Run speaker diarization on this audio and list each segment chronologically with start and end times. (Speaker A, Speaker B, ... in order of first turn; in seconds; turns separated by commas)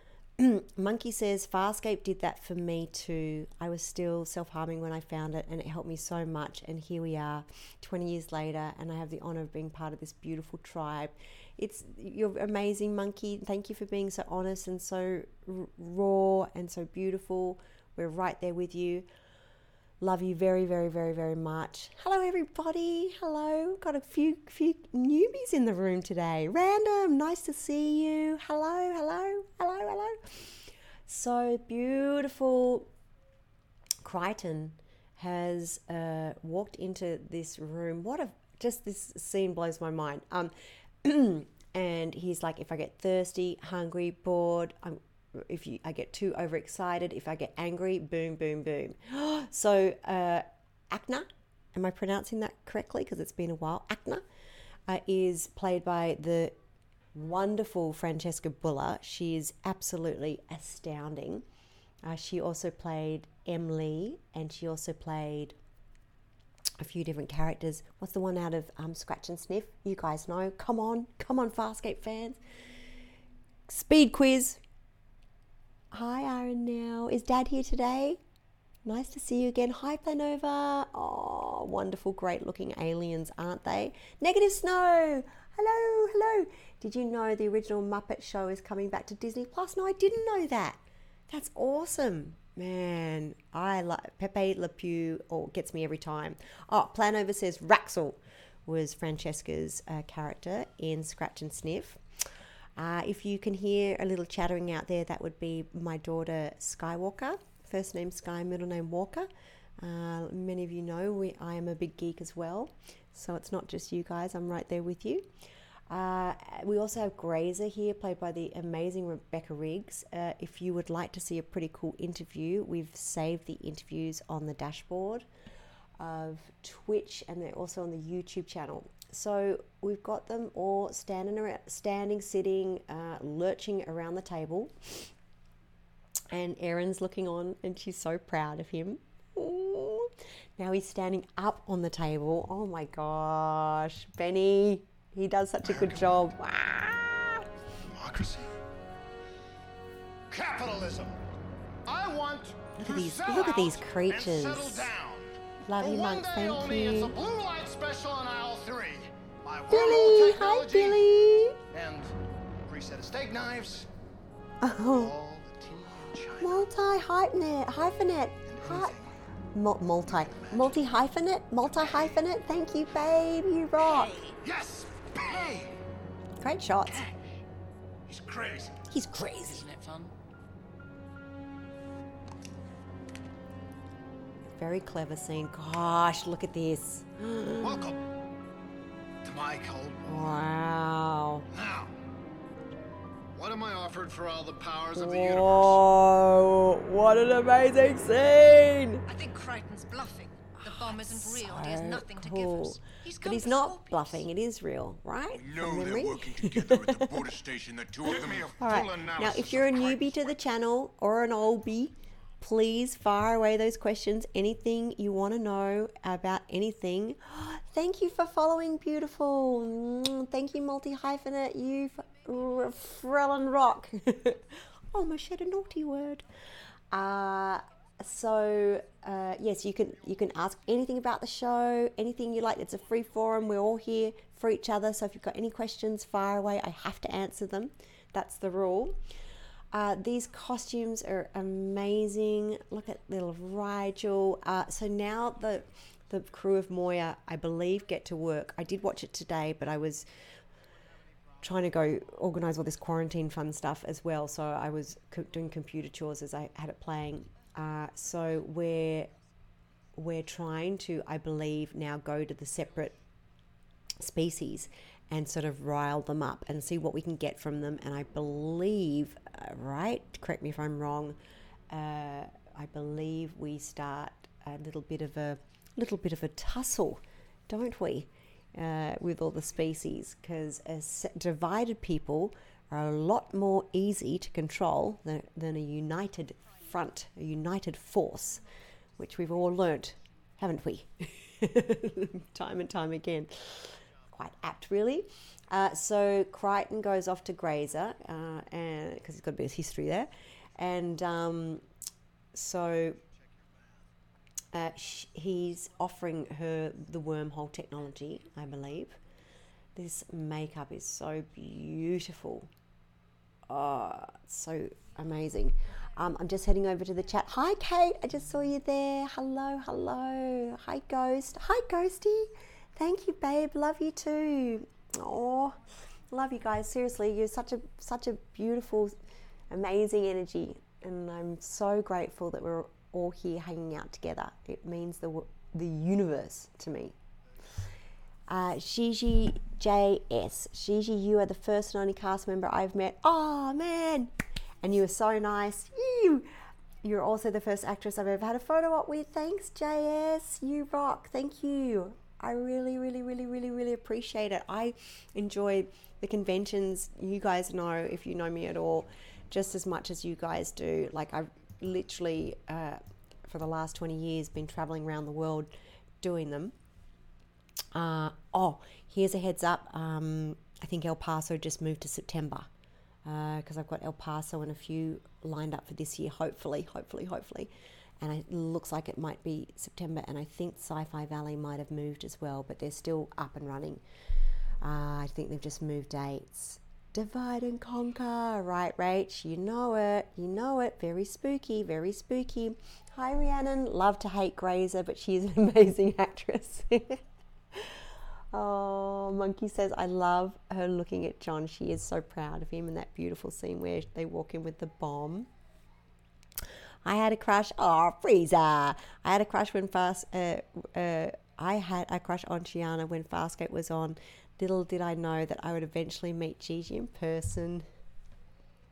Speaker A: 0.4-19.1, Speaker A: 20.0-32.9, Speaker A: 34.0-40.5, Speaker A: 41.0-54.2, Speaker A: 54.9-56.6, Speaker A: 57.1-61.5, Speaker A: 62.0-65.6, Speaker A: 66.8-72.4, Speaker A: 73.7-74.6, Speaker A: 75.9-78.2, Speaker A: 78.8-102.0, Speaker A: 102.8-109.3, Speaker A: 109.8-115.3, Speaker A: 115.9-125.3, Speaker A: 126.0-135.1, Speaker A: 136.3-147.5, Speaker B: 145.6-146.1, Speaker B: 147.8-148.5, Speaker B: 150.3-151.2, Speaker B: 151.9-161.0, Speaker A: 152.8-154.9, Speaker A: 155.7-157.1, Speaker A: 159.7-161.6, Speaker B: 161.7-163.9, Speaker A: 164.6-165.2, Speaker B: 164.8-166.7, Speaker A: 166.4-169.0, Speaker B: 168.5-169.1, Speaker A: 169.5-174.2, Speaker B: 170.1-170.8, Speaker B: 171.6-172.2, Speaker C: 173.8-174.4, Speaker B: 174.4-175.8, Speaker A: 176.4-177.0, Speaker B: 178.1-178.7, Speaker A: 178.9-179.7, Speaker B: 179.5-180.1, Speaker A: 184.6-187.9, Speaker B: 187.6-188.0, Speaker B: 189.2-190.4, Speaker A: 190.1-191.5, Speaker B: 191.5-191.9, Speaker B: 193.3-195.8, Speaker A: 194.9-199.0, Speaker C: 199.1-204.3, Speaker A: 200.6-207.2, Speaker D: 205.3-208.6, Speaker A: 208.0-226.2, Speaker B: 208.1-210.3, Speaker A: 226.9-239.0, Speaker A: 239.7-250.1, Speaker A: 251.4-259.1, Speaker A: 260.0-262.9, Speaker A: 264.0-271.2, Speaker A: 271.7-288.4, Speaker A: 289.0-301.6, Speaker A: 302.3-303.0, Speaker A: 304.5-309.0, Speaker A: 309.8-312.5, Speaker A: 313.5-329.0, Speaker A: 329.5-336.9, Speaker A: 338.3-346.3, Speaker A: 346.8-366.5, Speaker A: 367.8-372.5, Speaker A: 373.1-383.8, Speaker A: 384.6-397.0, Speaker A: 398.3-405.3, Speaker A: 406.9-417.7